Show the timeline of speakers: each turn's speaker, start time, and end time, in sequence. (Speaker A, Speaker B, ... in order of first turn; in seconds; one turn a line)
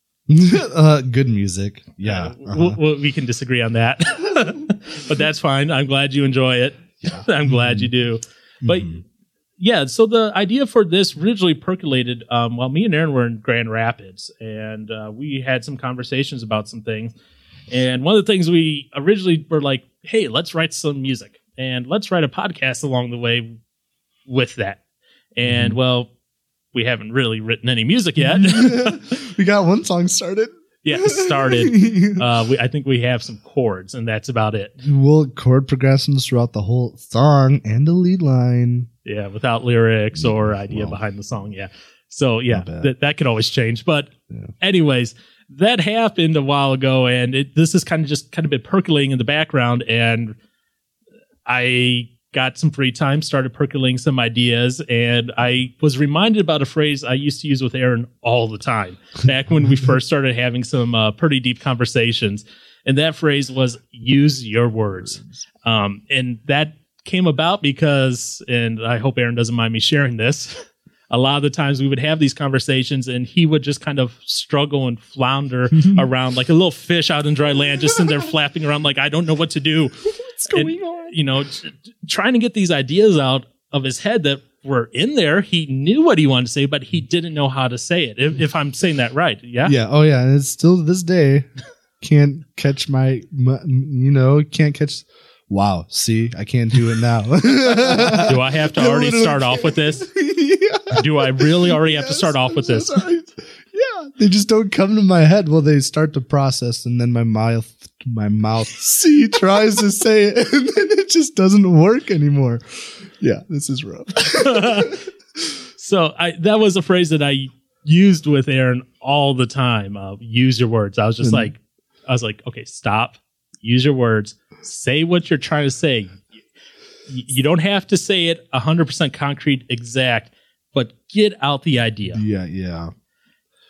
Speaker A: 0.3-2.8
Speaker B: 2.0-8.9
Speaker A: 7.0-7.9
Speaker A: 8.6-9.0
Speaker B: 9.6-17.1
Speaker B: 17.7-23.5
Speaker B: 24.3-24.8
Speaker B: 25.4-26.1
Speaker A: 25.4-25.8
Speaker B: 26.7-29.1
Speaker A: 28.3-32.3
Speaker B: 30.8-34.8
Speaker A: 34.8-38.9
Speaker B: 39.0-50.4
Speaker A: 40.2-41.0
Speaker A: 42.5-42.9
Speaker B: 51.5-80.0
Speaker A: 65.0-65.4
Speaker A: 77.9-78.2
Speaker A: 80.2-81.1
Speaker B: 80.5-89.8
Speaker A: 89.6-91.5
Speaker A: 92.0-115.0
Speaker B: 98.0-100.1
Speaker B: 100.9-103.0
Speaker B: 114.3-115.0
Speaker B: 115.8-126.2
Speaker A: 121.2-121.5
Speaker B: 127.1-132.2
Speaker A: 132.1-132.9